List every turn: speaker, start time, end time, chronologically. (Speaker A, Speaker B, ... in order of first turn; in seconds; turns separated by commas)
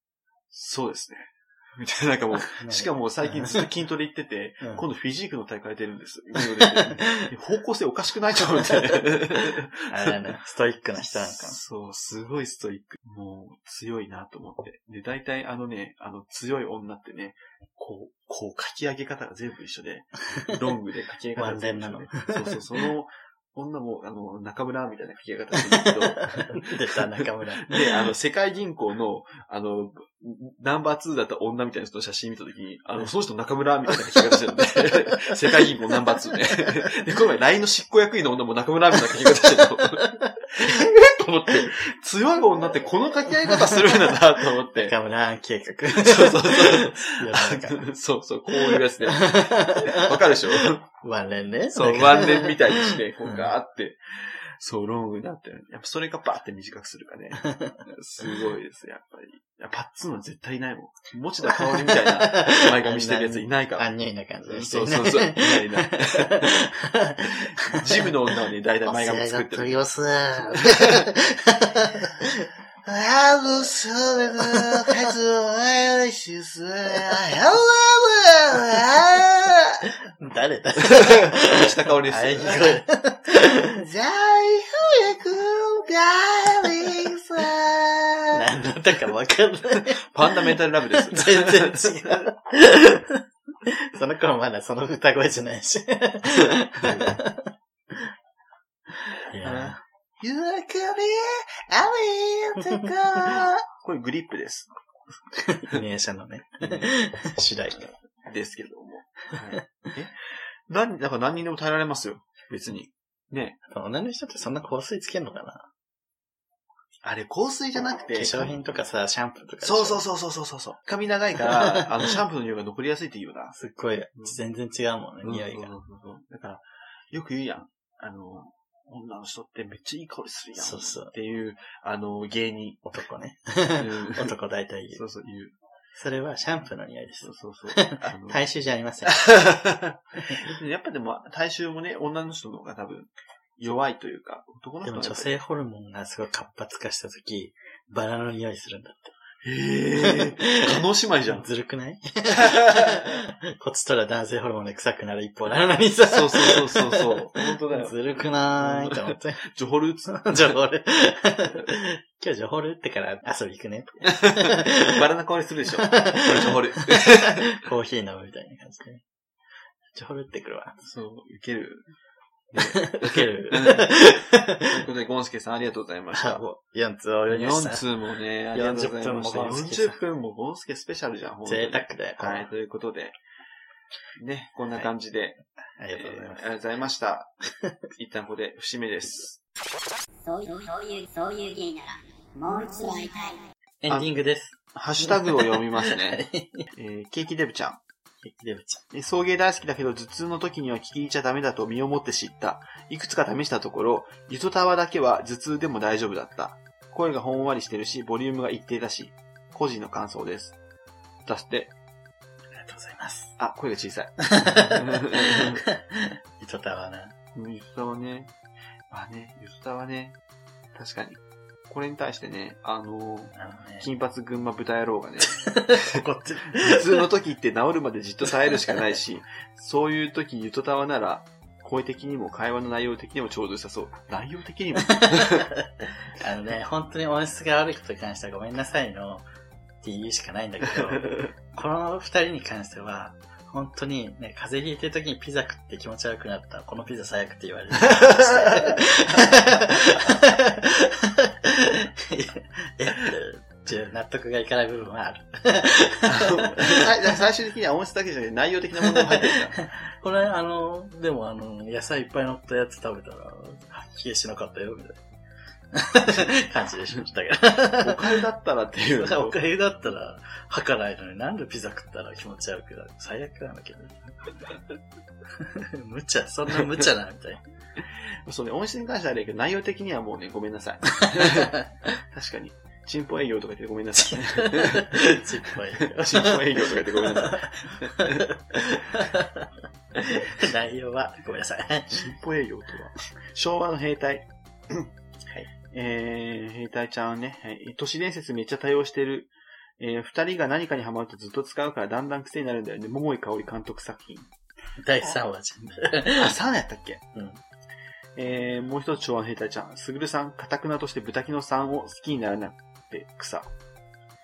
Speaker A: 0.5-10.3, Speaker B: 2.4-3.7, Speaker B: 6.4-7.3, Speaker B: 9.9-11.6, Speaker A: 11.0-44.9, Speaker B: 21.4-22.6, Speaker B: 25.7-28.0, Speaker B: 35.1-35.4, Speaker B: 40.0-41.8, Speaker B: 43.4-44.2, Speaker B: 44.8-47.8, Speaker A: 45.9-50.8, Speaker B: 48.5-53.5, Speaker A: 51.7-63.9, Speaker B: 57.4-57.8, Speaker B: 61.5-68.1, Speaker A: 64.5-66.6, Speaker A: 67.2-71.1, Speaker B: 68.8-72.5, Speaker A: 72.8-79.8, Speaker B: 74.3-75.1, Speaker B: 80.2-83.8, Speaker A: 80.8-82.8, Speaker A: 83.6-88.4, Speaker B: 88.3-98.1, Speaker A: 89.8-92.2, Speaker A: 96.8-97.2, Speaker B: 99.1-99.8, Speaker A: 99.4-104.7, Speaker B: 105.3-107.9, Speaker A: 106.6-106.9, Speaker A: 107.8-110.2, Speaker A: 110.7-113.6, Speaker B: 113.7-115.7, Speaker A: 117.0-118.5, Speaker B: 118.1-120.0, Speaker A: 119.6-123.5, Speaker B: 123.5-125.7, Speaker A: 125.2-132.8, Speaker B: 130.6-131.1, Speaker B: 132.8-135.0, Speaker A: 133.8-134.3, Speaker A: 134.9-135.5, Speaker B: 135.9-139.2, Speaker A: 137.2-138.4, Speaker A: 139.1-145.3, Speaker B: 144.8-149.1, Speaker A: 149.4-151.4, Speaker B: 150.0-159.4, Speaker A: 152.4-153.1, Speaker A: 156.1-158.0, Speaker A: 158.6-160.6, Speaker B: 160.1-165.0, Speaker A: 164.1-167.5, Speaker B: 165.8-169.0, Speaker B: 169.9-170.8, Speaker A: 170.8-171.9, Speaker A: 172.5-173.9, Speaker B: 172.6-174.8, Speaker A: 174.6-176.4, Speaker B: 176.1-177.8, Speaker A: 177.3-183.2, Speaker B: 178.5-180.0, Speaker B: 181.4-182.5, Speaker A: 184.2-185.4, Speaker B: 185.8-186.4, Speaker A: 185.9-187.3, Speaker A: 188.0-189.4, Speaker C: 190.2-193.4, Speaker B: 193.8-196.7, Speaker A: 194.7-197.8, Speaker B: 198.2-198.8, Speaker A: 198.9-210.6, Speaker A: 211.2-211.7, Speaker B: 212.5-213.4, Speaker A: 213.4-215.6, Speaker B: 214.3-217.1, Speaker A: 217.3-218.3, Speaker A: 218.9-220.2, Speaker A: 220.7-226.0, Speaker B: 223.3-223.9, Speaker B: 225.3-227.0, Speaker A: 226.6-235.5, Speaker B: 234.9-235.7, Speaker B: 236.2-239.2, Speaker B: 239.8-256.9, Speaker A: 240.7-241.3, Speaker A: 247.8-249.6, Speaker A: 256.1-259.6, Speaker B: 258.9-265.0, Speaker B: 265.7-268.1, Speaker A: 267.7-269.4, Speaker B: 268.9-274.0, Speaker B: 275.4-277.4, Speaker A: 278.2-281.5, Speaker B: 281.0-281.6, Speaker A: 282.1-285.0, Speaker B: 284.1-292.1, Speaker A: 285.8-288.2, Speaker A: 291.9-294.9, Speaker A: 295.5-304.3, Speaker B: 304.8-306.3, Speaker A: 306.1-307.0, Speaker B: 307.1-307.4, Speaker A: 308.1-313.5